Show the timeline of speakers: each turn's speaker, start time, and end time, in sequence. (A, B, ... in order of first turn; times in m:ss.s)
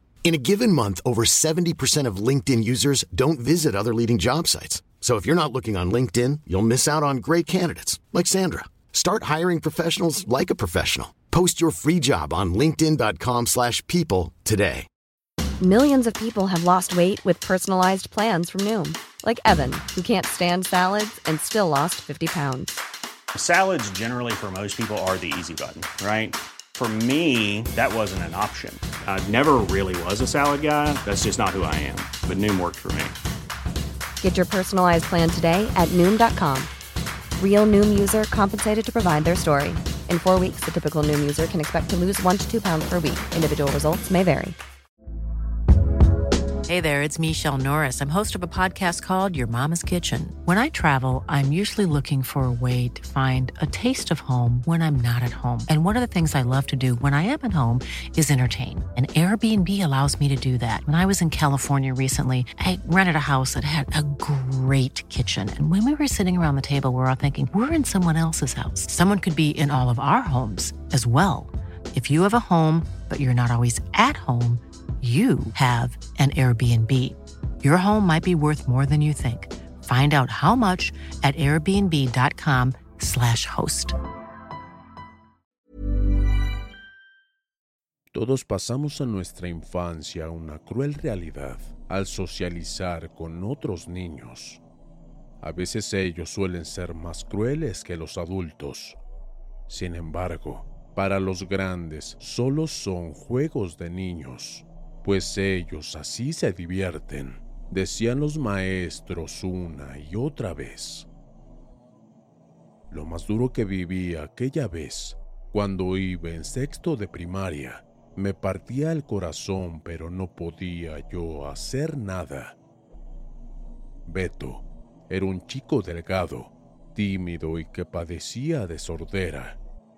0:00.2-0:14.9 A
0:15.6-0:22.8 B
0:23.5-0:24.8 C
0:25.3-0:26.2 C
0:26.9-0:28.2 C
0:29.2-0:33.0 C
0:34.2-0:36.7 B
0:37.4-0:44.6 B
0:46.6-1:24.0 D
1:28.1-1:34.6 E
1:35.4-1:39.0 E
1:39.7-1:51.1 E
1:52.9-2:02.6 E
2:04.0-2:09.6 E